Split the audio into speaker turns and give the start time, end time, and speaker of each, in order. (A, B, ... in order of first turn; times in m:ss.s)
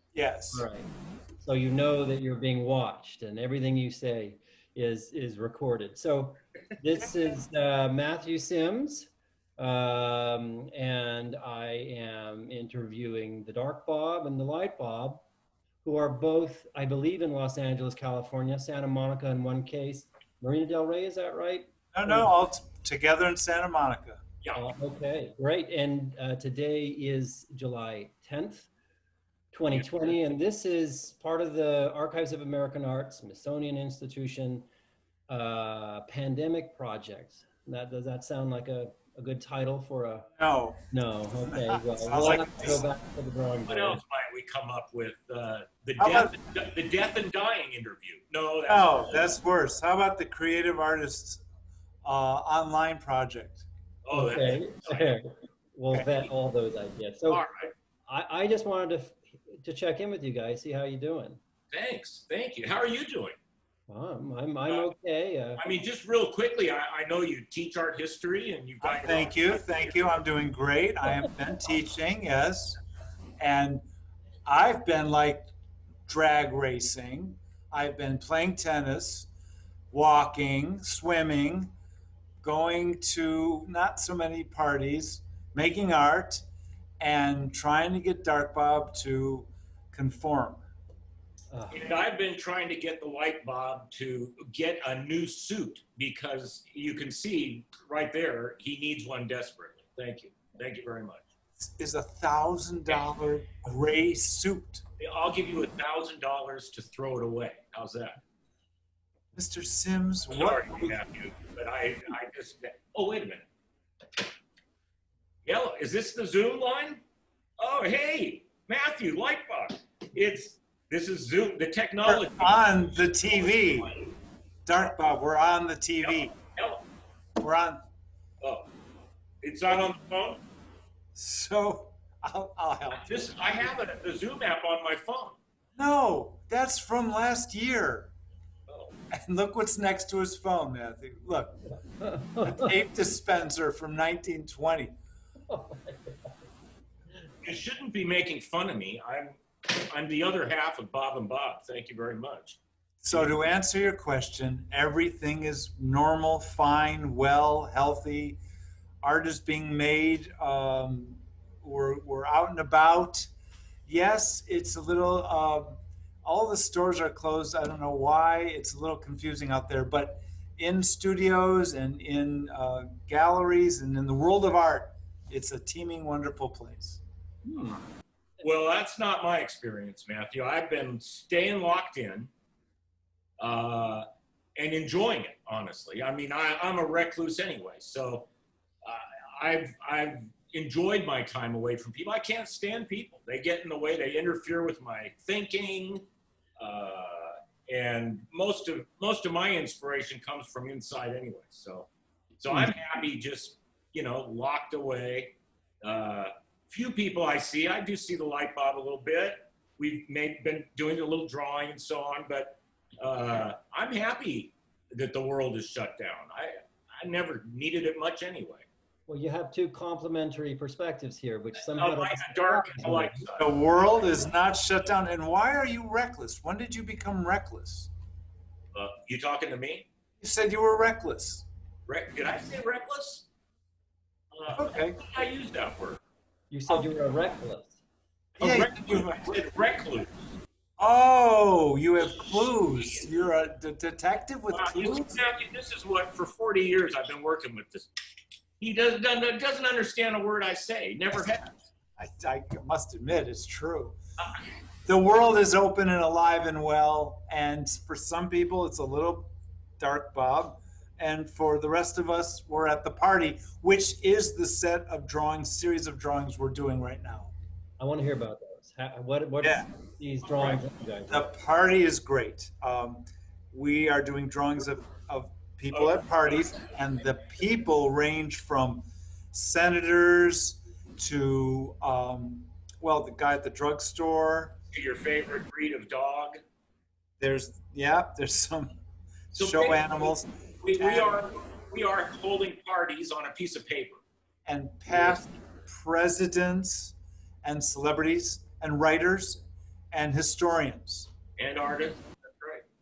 0:00.1-0:00.7 A
0:00.5-0:00.9 B
0:01.4-0:15.2 B
0:15.8-0:22.3 B
0:21.9-0:24.2 A
0:24.6-0:28.7 B
0:29.5-0:34.7 B
0:35.3-0:40.3 B
0:40.4-0:40.9 A
0:40.9-0:44.0 B
0:41.5-0:42.9 A
0:42.2-0:42.5 C
0:43.7-0:49.4 C
0:46.0-0:46.4 A
0:48.7-0:51.4 A
0:52.0-0:53.7 A
0:54.0-0:55.2 C
0:54.1-0:57.4 B
0:57.3-0:57.7 C
0:58.1-1:01.4 B
1:01.7-1:03.4 C
1:03.9-1:05.6 B
1:05.6-1:10.0 C
1:08.8-1:12.8 A
1:13.4-1:13.8 A
1:14.5-1:15.5 A
1:16.1-1:19.3 A
1:19.9-1:21.7 A
1:22.4-1:26.4 A
1:27.0-1:30.6 A
1:31.5-1:31.8 B
1:31.7-1:41.3 C
1:41.6-1:44.8 A
1:45.0-1:48.2 C
1:49.4-1:51.0 A
1:50.3-1:53.5 C
1:55.4-1:57.0 C
1:57.6-2:04.1 C
2:02.0-2:03.9 A
2:04.7-2:06.4 A
2:06.0-2:06.8 C
2:07.4-2:07.8 A
2:08.4-2:08.7 C
2:09.4-2:10.4 C
2:11.2-2:13.6 A
2:12.9-2:15.4 C
2:15.8-2:18.1 A
2:18.7-2:19.0 C
2:19.1-2:21.7 A
2:22.0-2:22.7 B
2:22.4-2:25.0 A
2:25.5-2:26.3 B
2:27.4-2:33.3 C
2:33.0-2:38.4 A
2:39.0-2:43.3 A
2:43.9-2:57.0 A
2:57.4-2:57.8 B
2:58.4-3:02.3 C
3:03.4-3:04.1 C
3:04.6-3:08.3 C
3:08.8-3:16.0 C
3:16.6-3:38.7 C
3:39.1-3:43.2 B
3:41.6-3:43.5 C
3:43.4-3:47.9 A
3:48.7-3:49.9 C
3:50.2-3:51.4 A
3:51.9-3:53.3 C
3:54.3-3:56.0 C
3:54.5-3:55.0 A
3:56.5-3:57.8 B
3:56.7-3:56.9 A
3:58.4-3:59.4 A
3:58.4-4:00.1 C
4:00.8-4:05.2 A
4:02.0-4:03.1 C
4:04.5-4:07.9 C
4:08.6-4:11.6 C
4:11.1-4:11.4 A
4:12.0-4:14.0 A
4:14.9-4:27.3 A
4:27.8-4:31.3 B
4:29.4-4:29.7 A
4:30.4-4:44.6 A
4:35.7-4:36.6 C
4:44.7-4:46.4 C
4:47.2-4:48.8 A
4:49.3-4:51.2 A
4:49.4-4:54.0 C
4:54.5-5:01.1 A
5:01.4-5:02.6 C